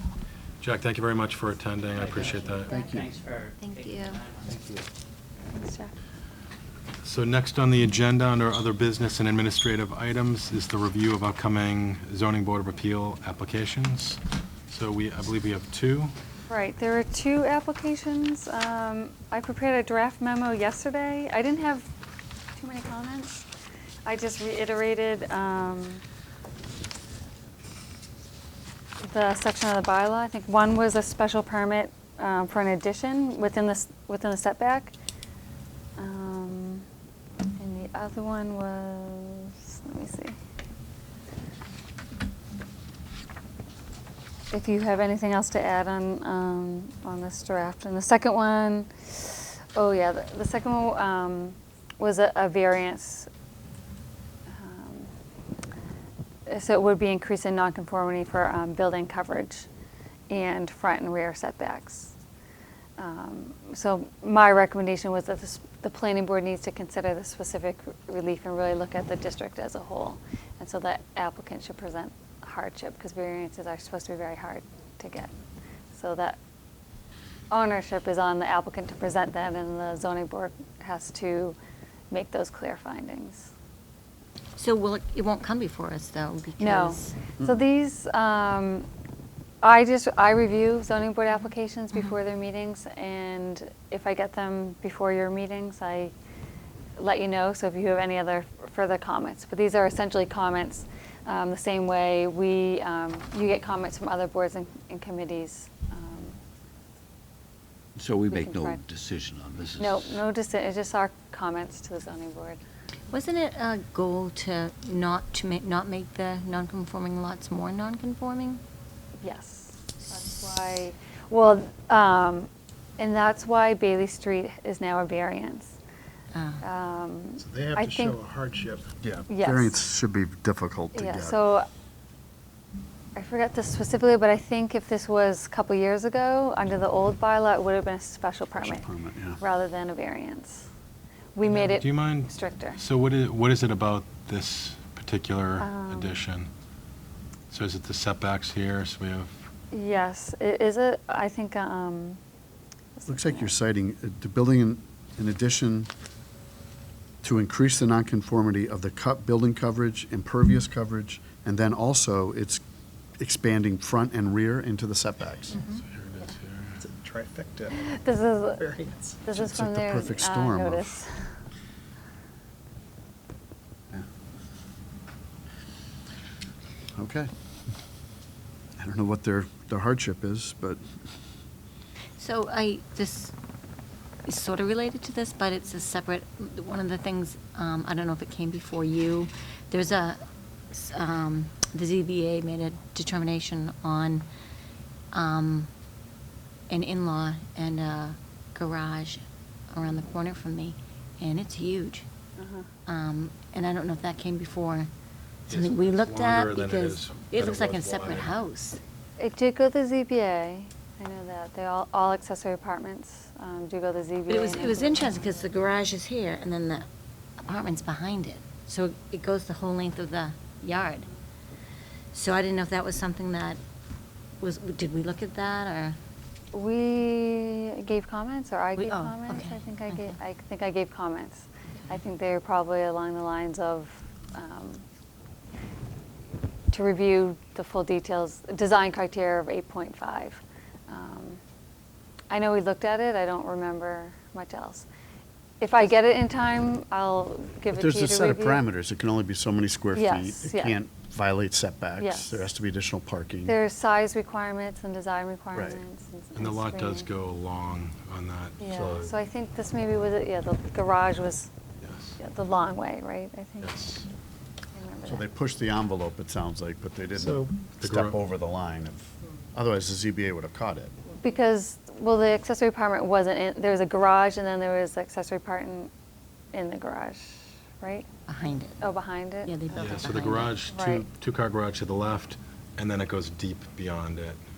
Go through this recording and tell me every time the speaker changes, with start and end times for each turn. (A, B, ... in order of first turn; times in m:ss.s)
0:00.6-0:02.8 A
0:01.9-0:04.6 B
0:02.7-0:03.1 C
0:03.6-0:04.2 D
0:05.5-0:05.9 E
0:07.0-0:16.1 A
0:16.5-0:21.9 E
0:22.5-0:23.4 E
0:24.0-0:26.0 E
0:29.0-0:34.9 E
0:36.0-0:36.8 E
0:37.6-0:40.4 E
0:44.5-0:53.3 E
0:54.5-0:55.1 E
0:56.5-0:59.7 E
1:00.3-1:02.2 E
1:03.0-1:15.3 E
1:15.9-1:16.4 E
1:17.5-1:21.6 E
1:22.1-1:23.5 E
1:24.6-1:27.1 D
1:26.6-1:28.9 E
1:29.6-1:36.1 E
1:37.0-1:46.4 E
1:48.0-1:50.2 F
1:48.3-1:48.8 E
1:49.8-1:52.6 E
1:53.1-1:58.6 D
1:59.2-2:05.8 E
2:00.0-2:00.8 D
2:06.3-2:06.6 D
2:06.6-2:08.2 E
2:07.4-2:08.9 G
2:09.0-2:11.4 C
2:09.3-2:09.8 E
2:10.9-2:11.7 E
2:13.2-2:20.7 E
2:18.6-2:19.4 C
2:21.3-2:22.8 E
2:21.4-2:26.5 A
2:25.6-2:26.2 E
2:27.5-2:29.4 A
2:29.7-2:32.2 E
2:33.0-2:33.5 E
2:33.0-2:35.9 C
2:37.2-2:42.6 C
2:43.2-2:45.6 C
2:45.5-2:45.8 D
2:45.8-2:46.8 A
2:46.8-2:47.8 G
2:47.7-2:48.7 E
2:48.6-2:49.2 G
2:49.2-2:51.3 E
2:49.3-2:51.0 C
2:57.0-2:57.3 C
2:58.8-3:00.8 C
3:02.2-3:03.3 D
3:04.2-3:14.3 D
3:15.1-3:15.7 D
3:16.7-3:22.0 D
3:22.4-3:22.7 E
3:22.8-3:24.9 D
3:25.5-3:28.8 D
3:25.5-3:28.3 A
3:29.2-3:35.3 E
3:34.3-3:36.9 D
3:37.4-3:41.1 D
3:42.1-3:43.6 D
3:44.4-3:46.0 D
3:46.5-3:54.8 E
3:48.8-3:50.2 D
3:56.7-4:01.4 E
4:02.3-4:04.9 E
4:05.6-4:08.6 E
4:07.7-4:13.6 C
4:09.9-4:10.8 E
4:12.0-4:12.5 E
4:13.4-4:17.1 E
4:15.5-4:15.8 C
4:16.3-4:19.1 A
4:18.6-4:21.5 E
4:21.8-4:22.2 A
4:22.2-4:23.8 E
4:23.6-4:24.0 A
4:24.7-4:25.3 E
4:25.0-4:30.9 C
4:27.6-4:28.2 A
4:31.2-4:35.9 E
4:36.5-4:38.0 E
4:38.3-4:38.8 D
4:38.8-4:40.0 E
4:39.4-4:40.6 D
4:39.8-4:44.4 A
4:40.7-4:41.1 E